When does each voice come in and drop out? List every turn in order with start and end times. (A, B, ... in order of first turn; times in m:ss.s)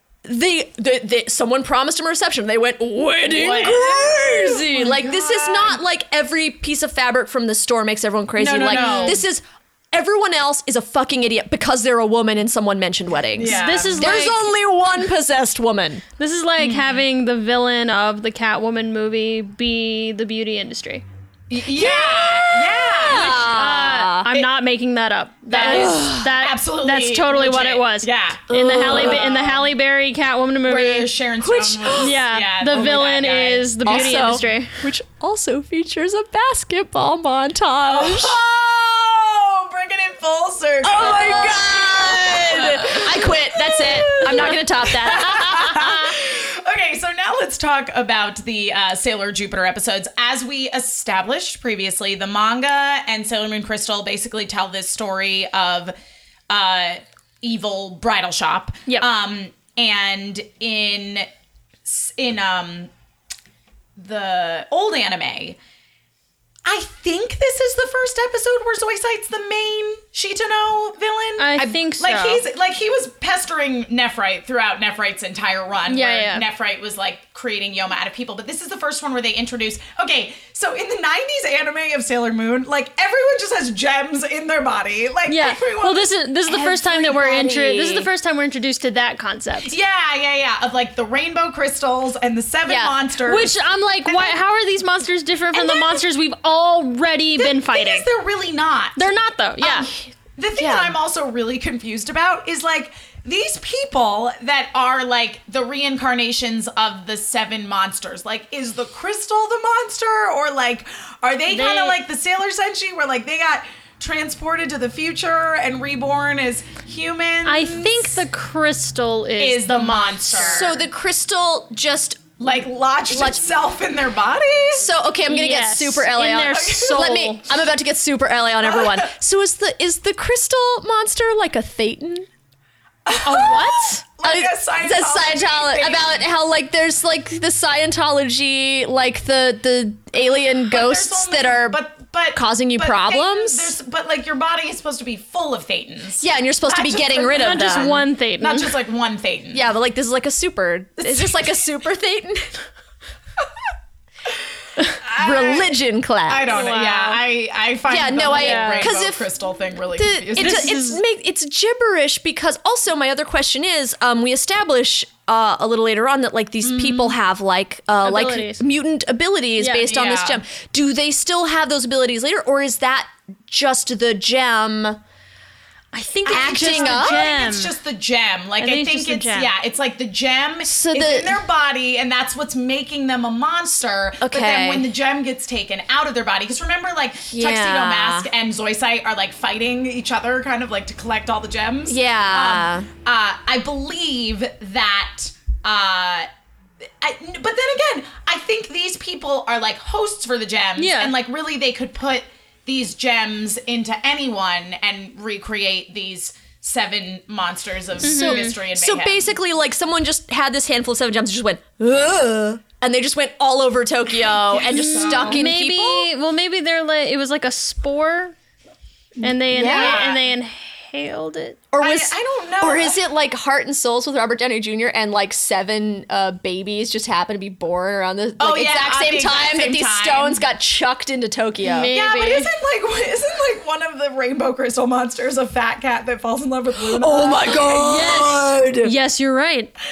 0:00.2-0:16.0 A
0:03.3-0:05.8 B
0:08.4-0:09.2 B
0:08.7-0:09.2 C
0:13.4-0:14.3 B
0:13.5-0:14.5 C
0:16.2-0:21.0 C
0:16.6-0:17.0 B
0:21.5-0:23.5 B
0:21.8-0:24.3 A
0:23.1-0:31.1 C
0:25.5-0:29.7 B
0:25.5-0:26.3 A
0:28.5-0:29.3 A
0:30.7-0:34.2 B
0:31.4-0:32.2 A
0:31.9-0:34.9 C
0:33.8-0:38.4 A
0:37.9-0:55.9 B
0:40.8-0:46.2 A
0:56.5-1:01.3 B
1:01.8-1:02.9 B
1:04.0-1:05.6 B
1:06.6-1:26.1 B
1:11.4-1:12.4 C
1:15.9-1:16.5 C
1:25.3-1:29.8 C
1:26.5-1:28.1 A
1:29.6-1:33.5 B
1:32.7-1:32.9 A
1:33.2-1:38.1 C
1:34.1-1:34.4 B
1:35.5-1:36.0 B
1:37.4-1:39.1 B
1:39.0-1:40.0 C
1:39.6-1:58.2 B
1:40.6-1:41.0 A
1:51.5-1:52.0 C
1:57.5-2:00.3 C
1:59.4-2:00.8 B
2:00.3-2:02.2 A
2:02.4-2:04.9 B
2:03.1-2:03.5 A
2:04.7-2:12.3 A
2:05.3-2:07.4 C
2:06.5-2:07.2 B
2:08.7-2:09.1 B
2:13.1-2:16.2 B
2:13.2-2:14.0 C
2:14.2-2:21.8 A
2:20.7-2:29.7 B
2:22.4-2:23.8 A
2:26.2-2:28.0 A
2:27.3-2:28.8 C
2:29.5-2:32.6 A
2:31.0-2:31.6 B
2:35.0-2:35.7 B
2:35.0-2:36.6 A
2:36.3-2:40.8 B
2:36.5-2:37.2 C
2:37.9-2:39.3 A
2:38.2-2:38.9 C
2:39.9-2:55.0 A
2:40.4-2:41.0 C
2:46.6-2:47.2 B
2:48.0-2:48.6 C
2:49.6-2:49.9 C
2:49.9-2:50.4 B
2:55.9-2:57.8 C
2:56.3-3:16.3 B
2:56.3-2:57.2 A
2:58.6-2:59.5 C
3:00.6-3:01.4 A
3:04.2-3:04.9 A
3:07.3-3:08.3 A
3:11.9-3:12.9 A
3:17.0-3:29.3 B
3:20.8-3:21.1 C
3:28.0-3:28.6 C
3:28.0-3:36.1 A
3:34.4-3:35.4 B
3:34.7-3:38.4 C
3:39.2-3:41.6 C
3:39.5-3:40.1 A
3:39.6-3:40.2 B
3:41.7-3:51.9 A
3:41.8-3:43.0 B
3:48.4-3:50.4 B
3:51.6-3:52.5 C
3:51.9-3:58.3 B
3:56.8-3:58.9 A
3:57.8-3:59.7 C